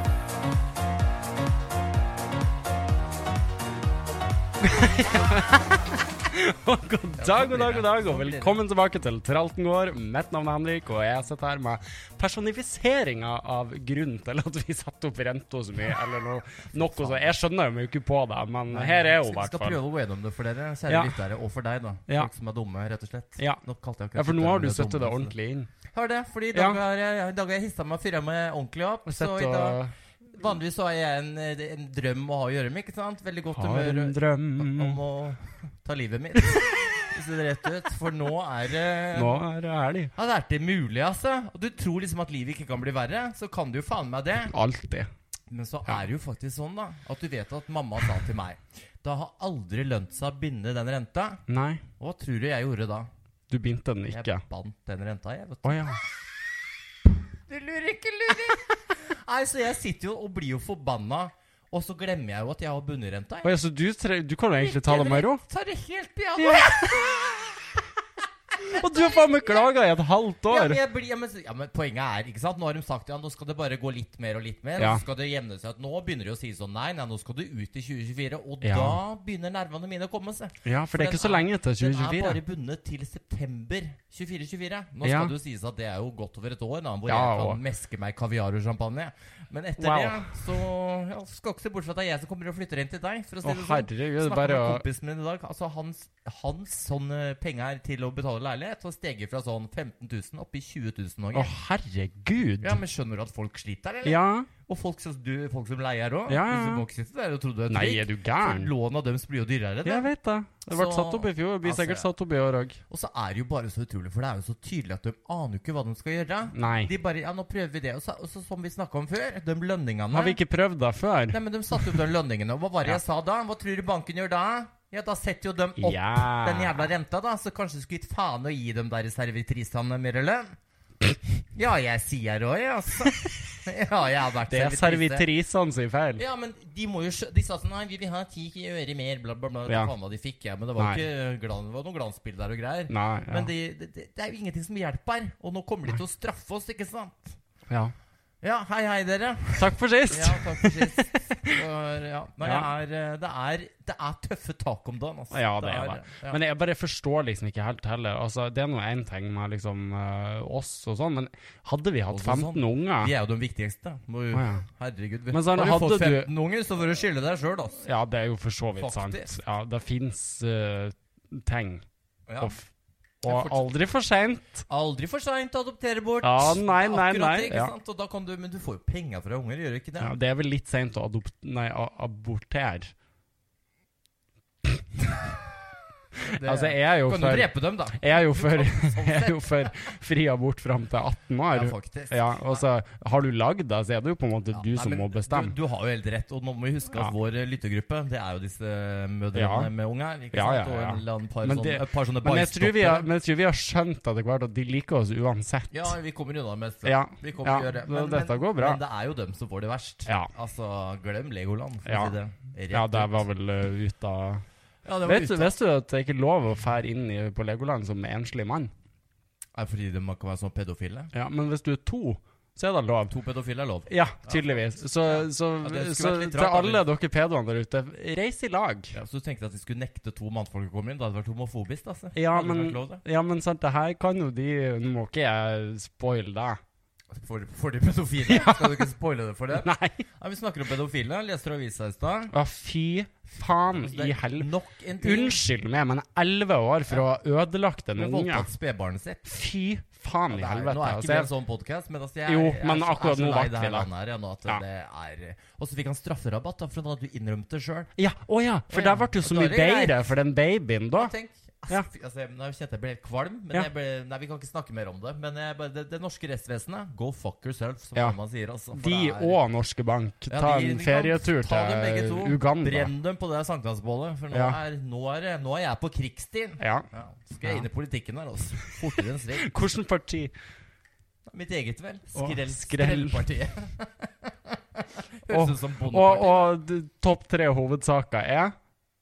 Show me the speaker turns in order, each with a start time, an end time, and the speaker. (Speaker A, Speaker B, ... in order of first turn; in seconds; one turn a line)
Speaker A: 4.6-19.8
Speaker B: 7.2-8.6
Speaker B: 16.8-17.3
Speaker B: 18.7-25.3
Speaker A: 20.9-21.2
Speaker A: 24.1-25.7
Speaker B: 25.9-29.8
Speaker A: 26.5-26.8
Speaker A: 29.1-29.9
Speaker B: 30.3-39.4
Speaker A: 33.5-35.0
Speaker A: 39.1-40.1
Speaker B: 40.1-44.5
Speaker A: 44.5-45.1
Speaker B: 45.5-51.4
Speaker A: 51.5-51.8
Speaker B: 52.0-53.1
Speaker A: 53.5-54.4
Speaker B: 54.1-55.9
Speaker A: 55.6-56.0
Speaker B: 57.5-63.5
Speaker A: 63.4-65.4
Speaker B: 64.6-67.6
Speaker A: 66.4-67.2
Speaker A: 68.6-70.8
Speaker B: 68.6-69.6
Speaker B: 70.5-101.5
Speaker A: 74.8-75.0
Speaker A: 78.6-79.0
Speaker A: 80.6-82.4
Speaker A: 85.0-85.3
Speaker A: 87.1-87.6
Speaker A: 89.8-90.4
Speaker A: 93.4-94.8
Speaker A: 101.3-102.8
Speaker B: 102.6-110.1
Speaker A: 104.0-104.5
Speaker A: 106.3-106.8
Speaker A: 107.7-108.7
Speaker A: 109.8-112.8
Speaker B: 110.7-112.1
Speaker B: 112.9-120.4
Speaker A: 116.5-116.9
Speaker A: 120.1-122.0
Speaker B: 121.3-130.6
Speaker A: 125.8-126.9
Speaker B: 131.5-135.3
Speaker A: 134.5-136.2
Speaker B: 136.2-147.4
Speaker A: 142.9-143.5
Speaker B: 148.4-156.4
Speaker A: 149.6-151.7
Speaker A: 152.4-152.7
Speaker A: 155.3-163.1
Speaker B: 162.1-167.8
Speaker A: 164.3-164.6
Speaker A: 165.3-166.3
Speaker A: 167.8-171.8
Speaker B: 168.8-169.3
Speaker B: 172.3-172.6
Speaker A: 172.4-172.7
Speaker A: 173.2-174.7
Speaker B: 173.2-173.7
Speaker B: 174.7-180.1
Speaker A: 176.2-177.7
Speaker A: 180.0-182.9
Speaker A: 186.2-195.5
Speaker B: 186.3-189.9
Speaker B: 191.5-192.6
Speaker B: 194.5-203.1
Speaker A: 199.3-199.7
Speaker A: 200.3-205.9
Speaker B: 205.7-213.2
Speaker A: 206.8-208.8
Speaker A: 211.9-212.1
Speaker A: 212.7-214.4
Speaker B: 214.8-215.6
Speaker A: 215.0-218.7
Speaker B: 219.5-221.1
Speaker A: 221.1-223.1
Speaker B: 223.1-226.8
Speaker A: 223.9-228.9
Speaker B: 228.9-233.0
Speaker A: 232.1-236.6
Speaker B: 237.1-242.3
Speaker A: 238.3-238.9
Speaker A: 239.6-240.0
Speaker A: 242.3-244.5
Speaker B: 243.7-245.4
Speaker A: 245.0-248.5
Speaker B: 247.9-249.3
Speaker A: 249.2-251.3
Speaker B: 250.3-257.9
Speaker A: 252.3-253.9
Speaker A: 258.0-261.1
Speaker B: 258.7-260.1
Speaker B: 260.9-269.4
Speaker A: 268.7-272.9
Speaker B: 270.3-279.5
Speaker A: 274.3-274.6
Speaker A: 276.6-276.9
Speaker A: 279.0-280.3
Speaker B: 281.3-286.6
Speaker A: 282.1-283.2
Speaker A: 285.3-288.5